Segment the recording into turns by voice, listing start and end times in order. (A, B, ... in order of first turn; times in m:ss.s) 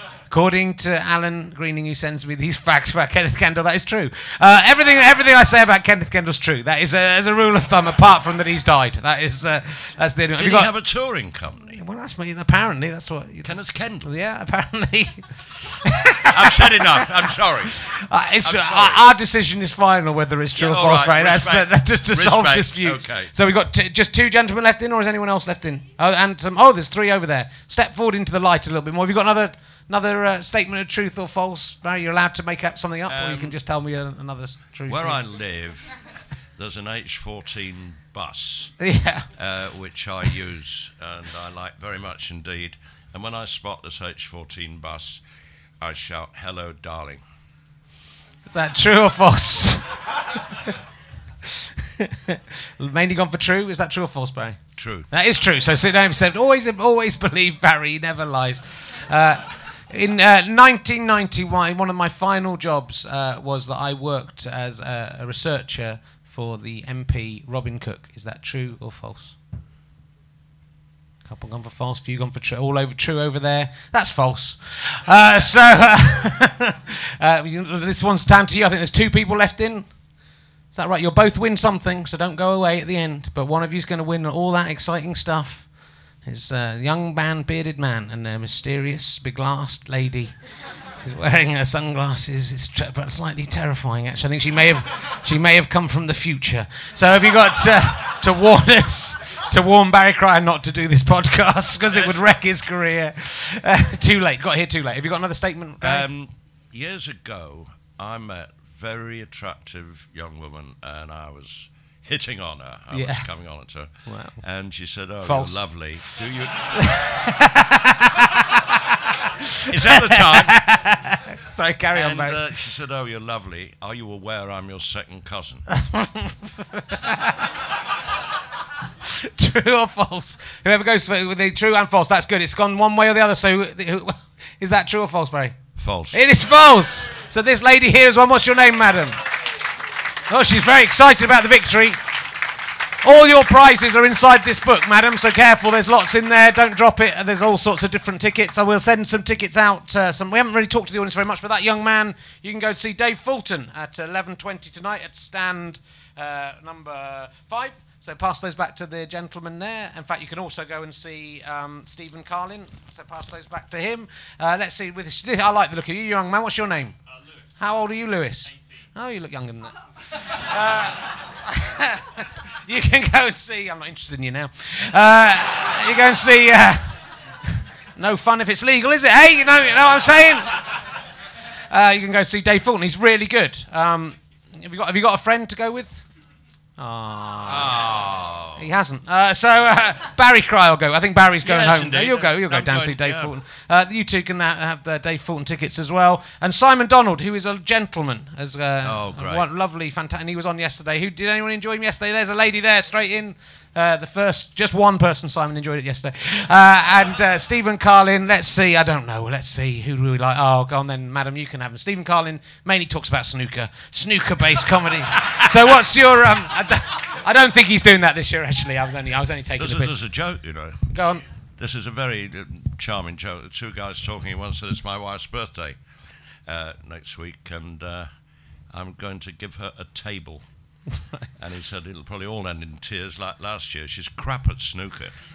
0:00.3-0:10.7 A
0:10.4-0:11.8 B
0:11.7-0:17.0 A
0:13.4-0:14.1 B
0:16.3-0:19.0 B
0:17.9-0:35.2 A
0:20.6-0:23.3 B
0:33.1-0:33.6 B
0:34.9-0:36.0 B
0:36.6-0:38.8 B
0:38.8-0:39.3 A
0:39.3-0:45.2 B
0:45.8-0:47.2 B
0:48.5-0:50.7 A
0:52.3-1:09.4 A
0:54.8-0:55.1 B
1:11.2-1:30.4 A
1:31.0-1:46.1 A
1:41.9-1:42.4 B
1:45.8-1:57.0 B
1:52.9-1:54.4 A
1:55.2-1:56.2 A
1:56.8-1:58.9 A
1:59.7-2:00.7 B
1:59.8-2:02.4 A
2:01.9-2:05.7 B
2:05.7-2:07.4 A
2:09.2-2:15.6 A
2:15.8-2:16.2 B
2:16.1-2:19.2 A
2:20.3-2:22.0 A
2:23.0-2:47.0 A
2:47.5-3:00.8 A
3:01.7-3:06.1 A
3:06.8-3:07.8 A
3:07.4-3:08.7 B
3:08.6-3:40.0 A
3:11.4-3:13.3 B
3:18.8-3:19.5 B
3:39.6-3:40.9 B
3:40.9-3:41.2 A
3:41.6-3:45.8 B
3:46.4-3:48.1 B
3:48.7-3:50.5 B
3:51.4-3:55.2 B